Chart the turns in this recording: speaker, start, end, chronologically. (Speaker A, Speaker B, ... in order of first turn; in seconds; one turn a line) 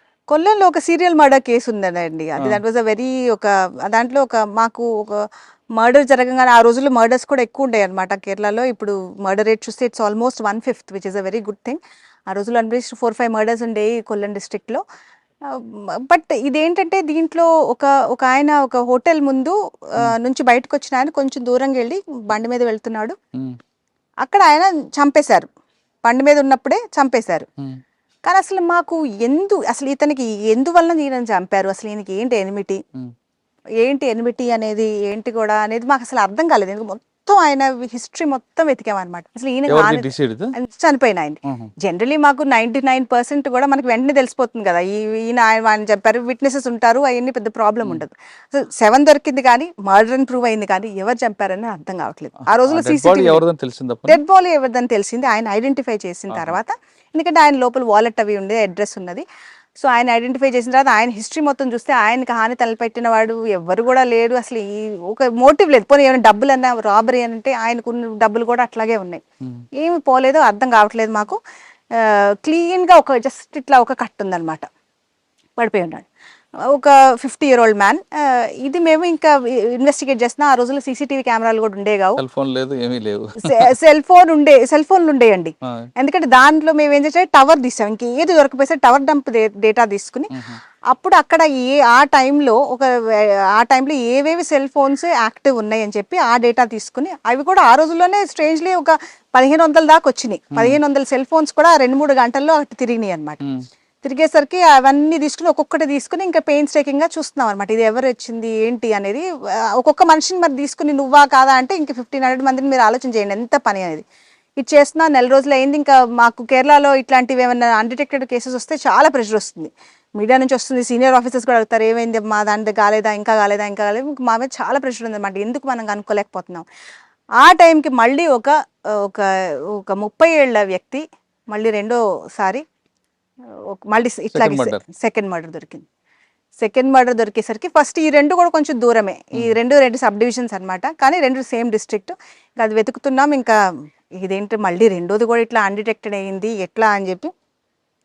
Speaker A: 0.3-5.2
Speaker A: 5.8-14.8
Speaker A: 15.5-23.1
Speaker A: 24.2-25.5
Speaker A: 26.0-27.5
Speaker A: 28.2-32.8
Speaker A: 33.8-53.4
Speaker B: 39.7-40.5
Speaker B: 41.5-41.7
Speaker B: 52.6-54.2
Speaker A: 54.1-59.2
Speaker B: 56.3-56.6
Speaker A: 59.8-69.2
Speaker A: 69.8-71.4
Speaker A: 72.0-74.7
Speaker A: 75.6-76.0
Speaker A: 76.7-82.2
Speaker B: 82.2-83.7
Speaker A: 83.4-90.3
Speaker B: 90.3-90.6
Speaker A: 90.9-103.4
Speaker B: 100.5-100.8
Speaker A: 104.0-109.2
Speaker A: 109.8-114.0
Speaker A: 114.6-126.7
Speaker A: 127.4-132.6
Speaker A: 133.7-135.8
Speaker B: 134.3-134.8
Speaker A: 136.6-143.5
Speaker A: 144.2-147.3